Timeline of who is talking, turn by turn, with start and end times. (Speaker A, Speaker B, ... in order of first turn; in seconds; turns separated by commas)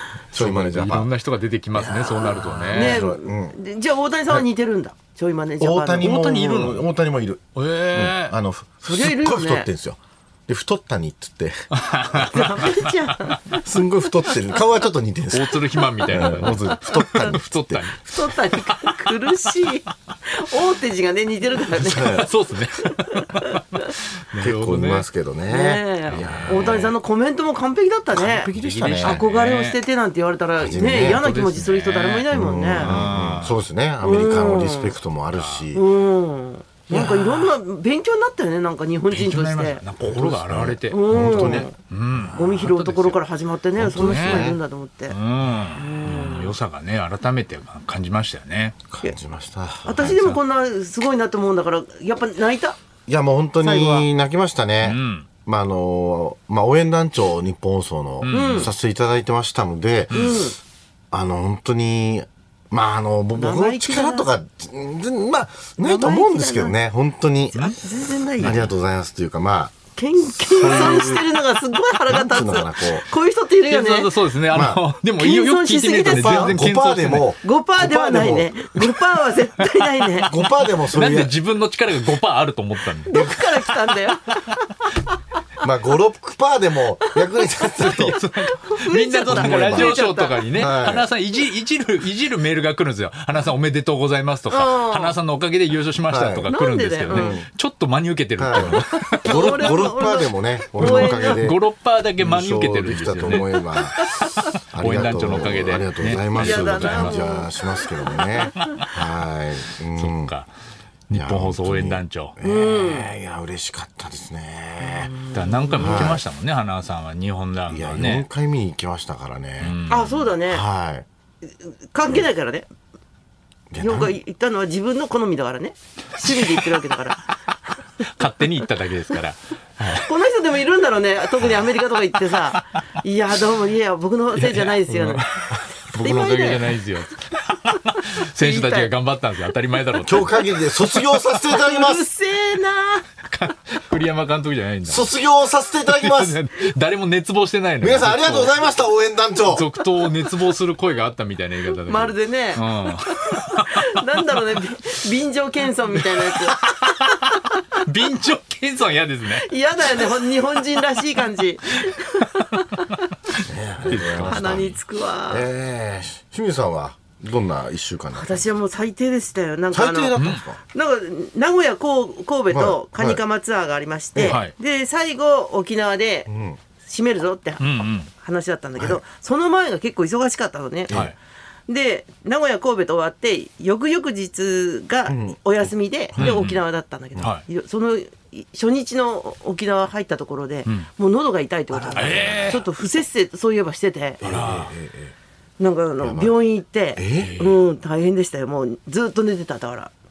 Speaker A: 0.3-3.0, Speaker B: 0.3-1.1, Speaker B: 1.8-3.5, Speaker C: 2.7-6.2, Speaker B: 5.6-12.6, Speaker A: 6.0-6.8, Speaker A: 7.5-8.4, Speaker C: 8.8-9.7, Speaker A: 11.7-13.3, Speaker C: 12.2-13.7, Speaker B: 13.6-18.3, Speaker A: 15.3-18.0, Speaker C: 17.1-17.4, Speaker C: 18.1-22.2, Speaker B: 21.8-22.3, Speaker A: 21.9-25.1, Speaker C: 23.2-23.9, Speaker B: 24.4-26.9, Speaker C: 25.5-33.0, Speaker A: 26.1-26.5, Speaker B: 28.1-29.2, Speaker A: 28.2-29.8, Speaker B: 30.6-31.3, Speaker A: 30.9-33.6, Speaker B: 32.3-35.8, Speaker C: 34.0-34.9, Speaker A: 35.3-35.6, Speaker C: 35.7-39.8, Speaker B: 36.9-37.5, Speaker A: 39.1-43.2, Speaker B: 40.0-42.4, Speaker C: 40.9-41.8, Speaker C: 42.3-45.2, Speaker B: 43.8-44.6, Speaker A: 43.8-44.5, Speaker A: 45.1-48.8, Speaker C: 45.7-46.5, Speaker B: 48.9-50.4, Speaker C: 49.9-52.8, Speaker B: 53.1-60.5, Speaker C: 53.6-54.0, Speaker A: 54.8-55.3, Speaker A: 58.2-58.7, Speaker C: 58.3-58.7, Speaker A: 60.1-60.4, Speaker C: 60.1-60.5, Speaker B: 61.1-67.7, Speaker C: 63.3-64.3, Speaker C: 65.8-66.7, Speaker A: 67.5-68.7, Speaker C: 67.8-68.6, Speaker B: 68.4-71.3, Speaker C: 70.0-74.1, Speaker A: 70.6-71.2, Speaker B: 72.1-73.1, Speaker A: 73.7-77.3, Speaker B: 74.5-74.8, Speaker C: 75.2-76.6, Speaker B: 76.0-78.8, Speaker C: 77.4-80.3, Speaker B: 80.2-81.3, Speaker A: 80.8-83.7, Speaker C: 83.1-85.0, Speaker B: 85.6-88.2, Speaker A: 87.8-99.8, Speaker C: 88.4-90.5, Speaker B: 89.3-90.0, Speaker B: 90.5-91.1, Speaker C: 94.5-95.2, Speaker B: 96.1-96.5, Speaker C: 96.5-97.3, Speaker B: 97.0-97.5, Speaker B: 98.4-101.6, Speaker C: 98.7-101.5, Speaker A: 100.8-103.5, Speaker B: 102.2-104.1, Speaker C: 103.3-104.3, Speaker A: 104.2-107.3, Speaker B: 104.7-110.3, Speaker C: 106.3-107.5, Speaker C: 108.1-108.9, Speaker A: 108.6-108.9, Speaker A: 110.0-110.5, Speaker A: 111.1-112.3, Speaker B: 111.1-115.2, Speaker C: 112.4-113.1, Speaker C: 114.8-116.2, Speaker A: 115.3-118.3, Speaker B: 115.8-116.2, Speaker B: 117.7-119.8, Speaker A: 119.6-120.3, Speaker C: 119.9-120.6, Speaker B: 120.5-121.0, Speaker C: 121.4-122.7, Speaker B: 123.7-124.2, Speaker C: 123.8-127.2, Speaker A: 128.0-130.1, Speaker C: 129.9-136.7, Speaker A: 134.3-141.2, Speaker C: 137.9-138.9, Speaker B: 140.0-142.1, Speaker C: 141.4-143.1, Speaker A: 143.2-145.1, Speaker B: 144.8-146.4, Speaker A: 145.8-148.6, Speaker B: 147.8-149.7, Speaker A: 149.4-154.4, Speaker C: 151.8-157.6, Speaker A: 155.9-160.0, Speaker C: 159.3-162.9, Speaker A: 163.3-164.7, Speaker B: 163.4-164.8, Speaker C: 164.2-165.5, Speaker B: 165.3-168.5, Speaker C: 168.1-170.1, Speaker B: 169.7-170.6, Speaker A: 170.2-170.4, Speaker C: 170.7-176.3, Speaker B: 172.5-173.2, Speaker B: 174.1-174.4, Speaker A: 174.2-174.5, Speaker B: 176.3-176.6, Speaker C: 176.8-181.0, Speaker A: 177.6-178.1, Speaker C: 181.7-194.3, Speaker B: 185.1-185.4, Speaker B: 186.1-186.4, Speaker A: 186.2-186.6, Speaker B: 191.7-192.6, Speaker A: 191.9-192.6, Speaker B: 194.2-195.1, Speaker A: 194.2-194.7, Speaker C: 195.6-199.9, Speaker B: 196.0-196.3, Speaker B: 197.0-197.4, Speaker A: 197.1-197.6